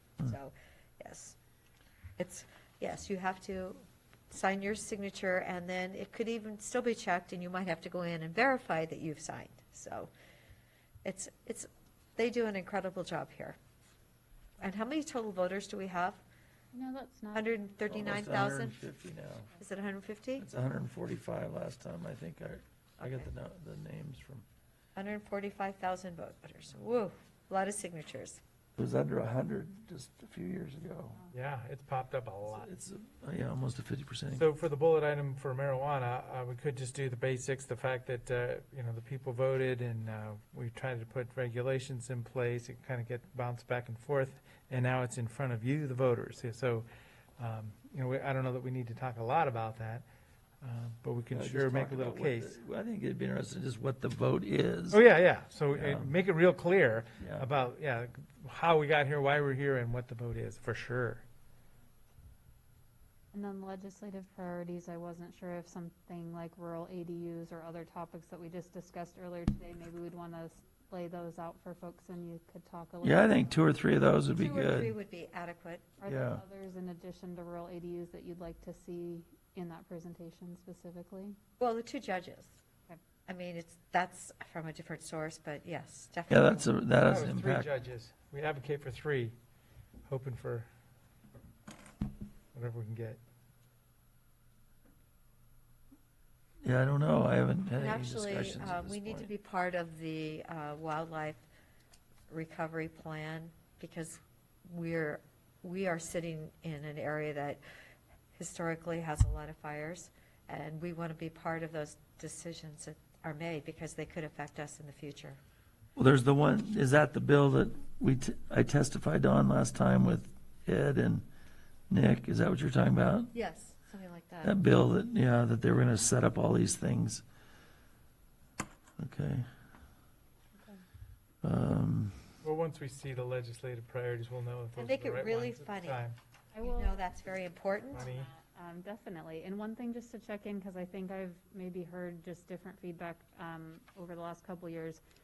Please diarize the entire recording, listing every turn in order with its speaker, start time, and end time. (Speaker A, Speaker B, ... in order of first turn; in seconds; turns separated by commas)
Speaker A: 0.2-1.4, Speaker A: 2.2-10.1, Speaker A: 11.0-13.6, Speaker A: 14.6-16.2, Speaker B: 16.7-17.6, Speaker A: 17.4-18.8, Speaker C: 17.9-19.5, Speaker A: 19.6-20.5, Speaker C: 20.4-24.5, Speaker A: 23.0-23.3, Speaker A: 25.0-28.4, Speaker C: 28.8-31.2, Speaker D: 31.3-32.7, Speaker C: 32.5-34.5, Speaker D: 34.3-46.9, Speaker D: 47.4-50.0, Speaker D: 50.6-52.5, Speaker C: 51.3-55.0, Speaker D: 54.9-61.2, Speaker C: 55.7-56.1, Speaker C: 57.2-57.5, Speaker B: 63.3-73.5, Speaker C: 73.0-75.0, Speaker A: 74.3-75.9, Speaker B: 76.0-81.4, Speaker C: 76.1-76.4, Speaker A: 81.6-82.6, Speaker A: 83.3-86.7, Speaker C: 86.3-87.7, Speaker D: 87.0-89.3, Speaker D: 90.1-90.7, Speaker D: 92.5-93.2, Speaker C: 96.6-99.3, Speaker A: 97.8-101.5, Speaker A: 102.3-107.6, Speaker A: 108.3-115.4, Speaker C: 116.0-121.3, Speaker C: 121.9-123.3, Speaker A: 123.3-124.6, Speaker C: 124.4-127.2, Speaker C: 129.0-129.5, Speaker B: 130.6-130.8, Speaker C: 131.4-132.2, Speaker D: 132.4-136.2, Speaker A: 134.8-136.0, Speaker B: 136.5-137.0, Speaker A: 136.6-138.1, Speaker B: 137.9-145.0, Speaker D: 137.9-138.3